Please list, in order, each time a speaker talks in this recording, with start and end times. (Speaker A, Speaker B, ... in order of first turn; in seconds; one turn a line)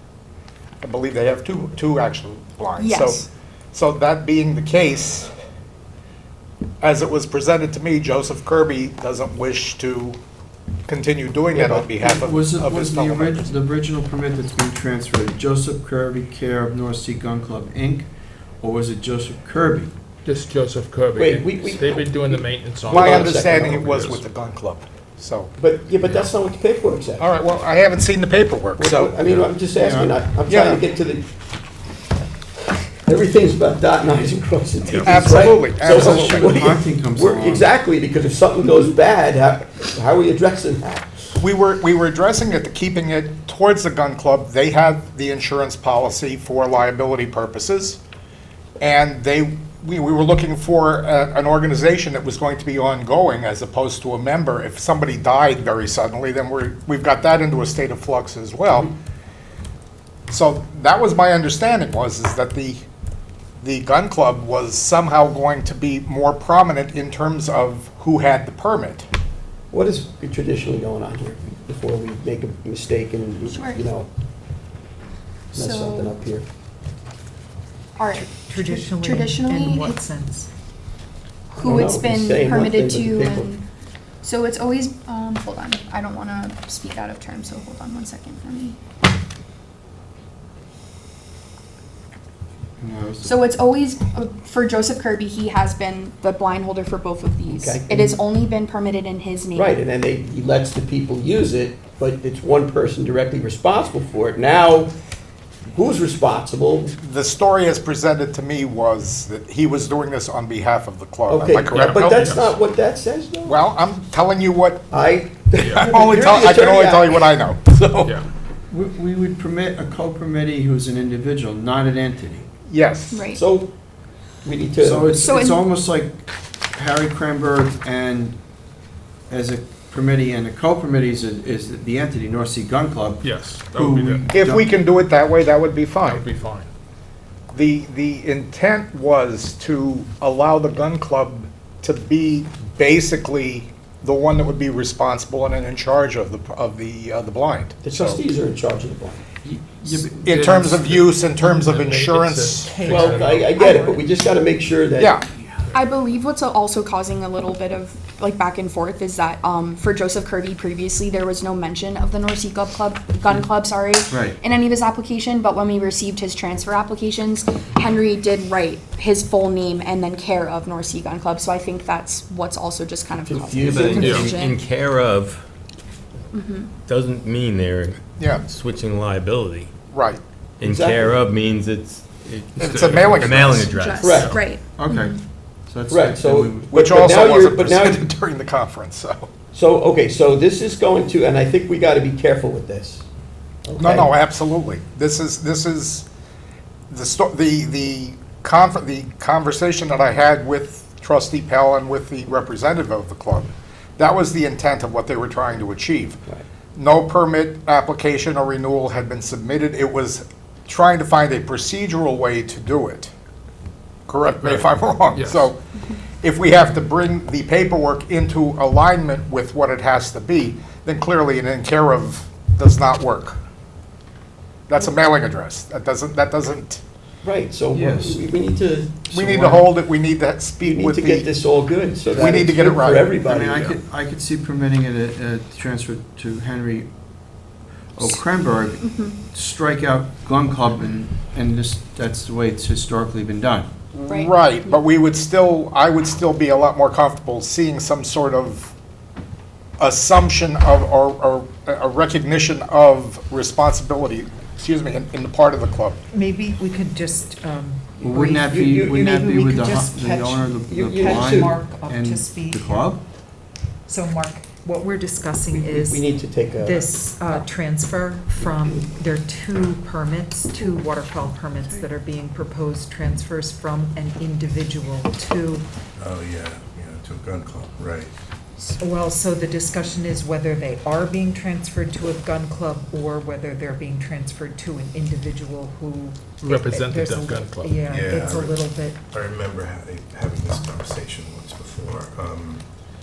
Speaker A: 0.8-5.3
Speaker B: 2.8-3.3
Speaker A: 6.8-10.2
Speaker A: 10.9-13.5
Speaker C: 11.6-18.1
Speaker C: 18.6-19.9
Speaker D: 20.2-24.2
Speaker E: 21.1-23.8
Speaker A: 22.9-25.5
Speaker E: 25.6-27.2
Speaker A: 27.2-29.2
Speaker E: 28.8-31.2
Speaker C: 29.7-30.2
Speaker A: 30.5-30.8
Speaker E: 33.0-41.1
Speaker A: 34.9-36.8
Speaker C: 35.8-37.7
Speaker A: 41.4-48.0
Speaker A: 48.8-58.9
Speaker A: 60.3-62.8
Speaker A: 63.6-69.1
Speaker E: 69.7-74.1
Speaker B: 73.4-73.8
Speaker B: 75.5-76.1
Speaker E: 75.5-76.5
Speaker B: 78.0-80.0
Speaker F: 78.1-80.5
Speaker B: 81.5-83.6
Speaker E: 81.5-83.5
Speaker B: 84.2-88.8
Speaker C: 92.8-93.4
Speaker B: 93.2-99.8
Speaker E: 97.5-98.2
Speaker E: 99.5-104.9
Speaker E: 105.7-106.9
Speaker A: 107.0-112.4
Speaker E: 111.3-113.6
Speaker D: 111.8-112.5
Speaker A: 113.4-114.9
Speaker E: 114.9-117.3
Speaker D: 115.6-115.9
Speaker A: 115.7-118.2
Speaker C: 118.7-122.5
Speaker A: 122.7-123.2
Speaker B: 123.1-123.4
Speaker E: 123.3-123.7
Speaker E: 124.4-125.1
Speaker C: 124.8-128.4
Speaker B: 125.1-125.6
Speaker C: 129.3-134.7
Speaker D: 133.2-134.2
Speaker A: 134.3-136.2
Speaker D: 136.0-136.7
Speaker A: 137.5-148.2
Speaker E: 147.8-149.2
Speaker C: 149.4-151.1
Speaker A: 149.9-152.8
Speaker D: 151.4-153.6
Speaker F: 152.6-154.1
Speaker E: 152.8-155.1
Speaker A: 155.0-155.2
Speaker B: 155.7-174.6
Speaker C: 164.1-164.4
Speaker E: 173.2-174.3
Speaker G: 173.6-175.4
Speaker D: 174.0-174.3
Speaker B: 176.3-176.7
Speaker G: 176.8-179.7
Speaker A: 178.2-178.4
Speaker A: 179.9-180.2
Speaker G: 180.6-184.4
Speaker E: 180.6-181.2
Speaker D: 182.6-183.5
Speaker A: 182.6-183.7
Speaker B: 183.7-185.2
Speaker E: 183.9-184.4
Speaker C: 184.7-186.7
Speaker E: 185.9-188.1
Speaker A: 186.7-189.3
Speaker E: 189.5-193.0
Speaker E: 193.6-194.1
Speaker A: 193.8-196.1
Speaker A: 196.9-206.2
Speaker A: 206.7-213.1
Speaker A: 214.1-215.6
Speaker D: 214.3-215.5
Speaker A: 216.2-223.4
Speaker A: 224.7-226.8
Speaker E: 227.2-229.7
Speaker C: 227.7-228.2
Speaker A: 229.1-231.3
Speaker E: 230.6-233.8
Speaker C: 232.1-232.5
Speaker A: 232.1-233.1
Speaker C: 233.1-236.9
Speaker C: 237.9-243.7
Speaker B: 238.8-239.1
Speaker A: 243.9-248.7
Speaker B: 244.1-244.3
Speaker A: 249.8-256.0
Speaker F: 256.1-262.9
Speaker C: 258.0-263.0
Speaker E: 258.5-259.0
Speaker E: 260.7-261.6
Speaker F: 263.9-275.6
Speaker E: 265.5-266.9
Speaker E: 268.4-268.8
Speaker H: 276.0-278.1
Speaker F: 278.6-289.0
Speaker D: 286.4-287.8
Speaker H: 287.8-292.6